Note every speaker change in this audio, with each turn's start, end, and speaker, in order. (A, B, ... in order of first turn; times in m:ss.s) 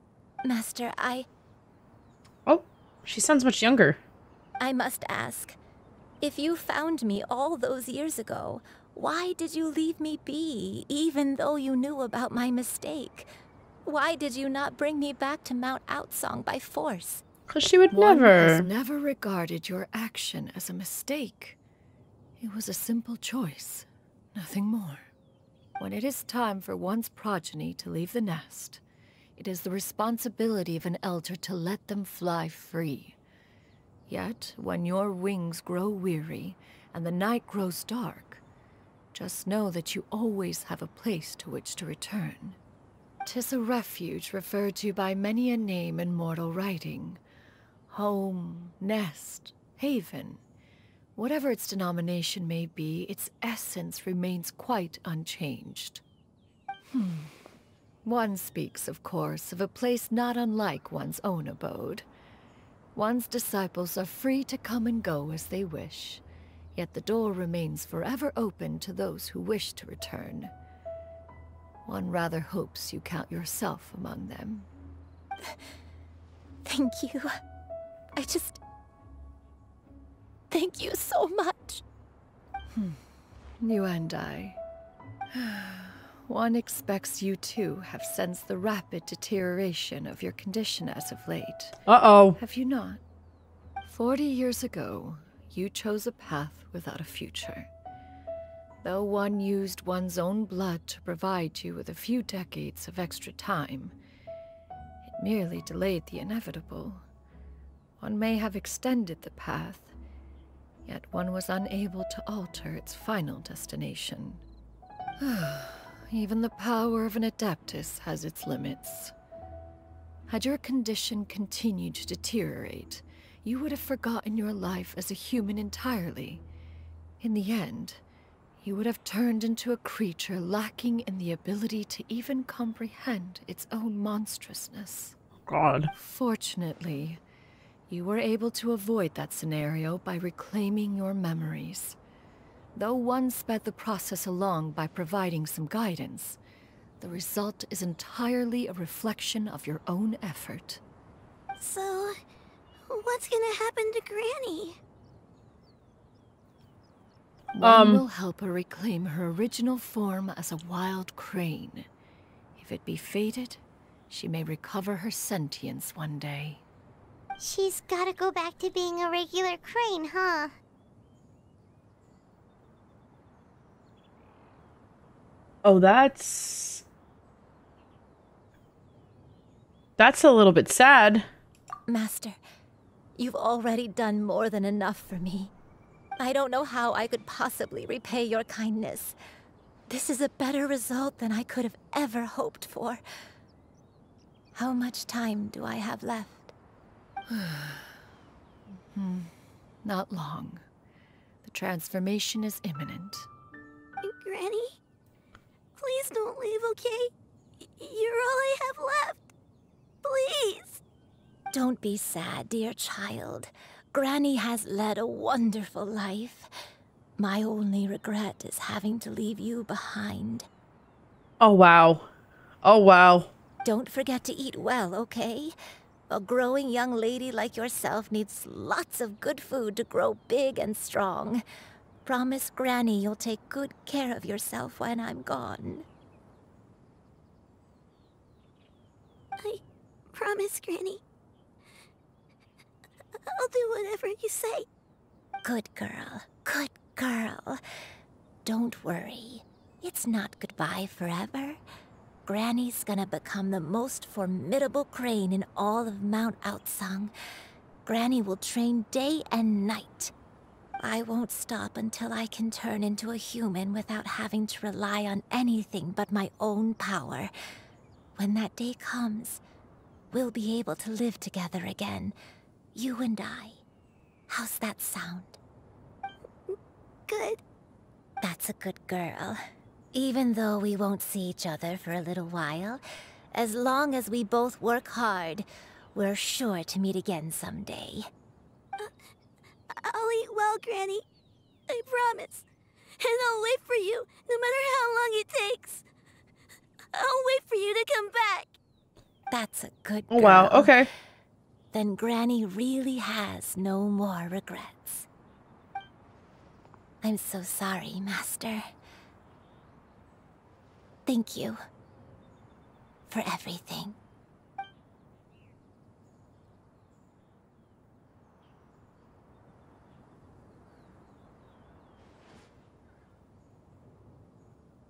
0:00.4-0:01.3 A
0:02.5-0:04.0 B
0:04.6-0:05.6 A
0:06.2-0:13.3 A
0:13.8-0:17.2 A
0:17.5-0:18.7 B
0:17.9-0:21.6 C
0:22.4-0:25.1 C
0:25.8-0:28.8 C
0:29.4-0:33.2 C
0:34.1-0:38.4 C
0:39.1-0:42.6 C
0:43.2-0:47.2 C
0:47.9-0:50.4 C
0:51.2-0:56.0 C
0:56.9-0:57.4 C
0:58.0-1:02.1 C
1:03.0-1:06.2 C
1:06.8-1:10.5 C
1:11.8-1:14.7 C
1:16.6-1:17.3 A
1:18.2-1:18.6 A
1:20.5-1:21.8 A
1:22.7-1:23.0 C
1:23.6-1:24.6 C
1:25.3-1:31.8 C
1:31.9-1:32.4 B
1:32.4-1:33.0 C
1:33.8-1:37.7 C
1:38.8-1:44.0 C
1:45.1-1:47.0 C
1:48.0-1:49.9 C
1:50.8-1:54.4 C
1:55.2-1:59.1 C
2:00.3-2:06.4 C
2:07.2-2:08.0 C
2:08.6-2:15.2 C
2:15.5-2:15.9 B
2:15.9-2:17.2 C
2:17.9-2:22.0 C
2:22.8-2:26.4 C
2:27.0-2:30.8 C
2:31.6-2:32.2 D
2:32.9-2:34.8 D
2:37.5-2:41.9 C
2:37.6-2:38.0 B
2:42.6-2:46.6 C
2:47.4-2:50.5 E
2:55.6-2:56.8 B
3:00.0-3:01.3 B
3:01.9-3:02.4 A
3:03.2-3:05.5 A
3:06.2-3:09.2 A
3:09.9-3:13.0 A
3:14.6-3:16.5 A
3:17.3-3:18.0 C
3:18.9-3:20.6 C
3:21.4-3:23.3 C
3:24.0-3:24.8 D
3:25.8-3:29.3 D
3:30.0-3:30.8 D
3:31.5-3:36.5 A
3:37.2-3:40.5 A
3:41.4-3:42.1 B
3:42.6-3:43.3 B
3:43.6-3:45.6 A
3:46.1-3:51.4 A
3:52.0-3:55.9 A
4:00.1-4:01.0 D
4:03.2-4:04.7 D
4:05.4-4:07.6 A
4:08.4-4:11.6 A
4:12.2-4:17.1 A
4:17.8-4:20.1 A
4:20.8-4:27.3 A
4:28.2-4:29.4 A
4:30.1-4:32.2 A
4:32.8-4:33.6 A
4:34.3-4:35.4 A
4:37.1-4:37.4 D
4:38.2-4:42.8 A
4:43.3-4:48.1 A
4:49.8-4:51.0 D
4:51.7-4:52.4 D
4:53.0-4:55.8 D
4:56.9-4:58.6 D
4:59.3-5:00.8 A
5:00.1-5:00.9 B
5:01.7-5:05.1 A
5:07.0-5:08.7 A
5:11.1-5:11.6 A
5:13.1-5:14.0 A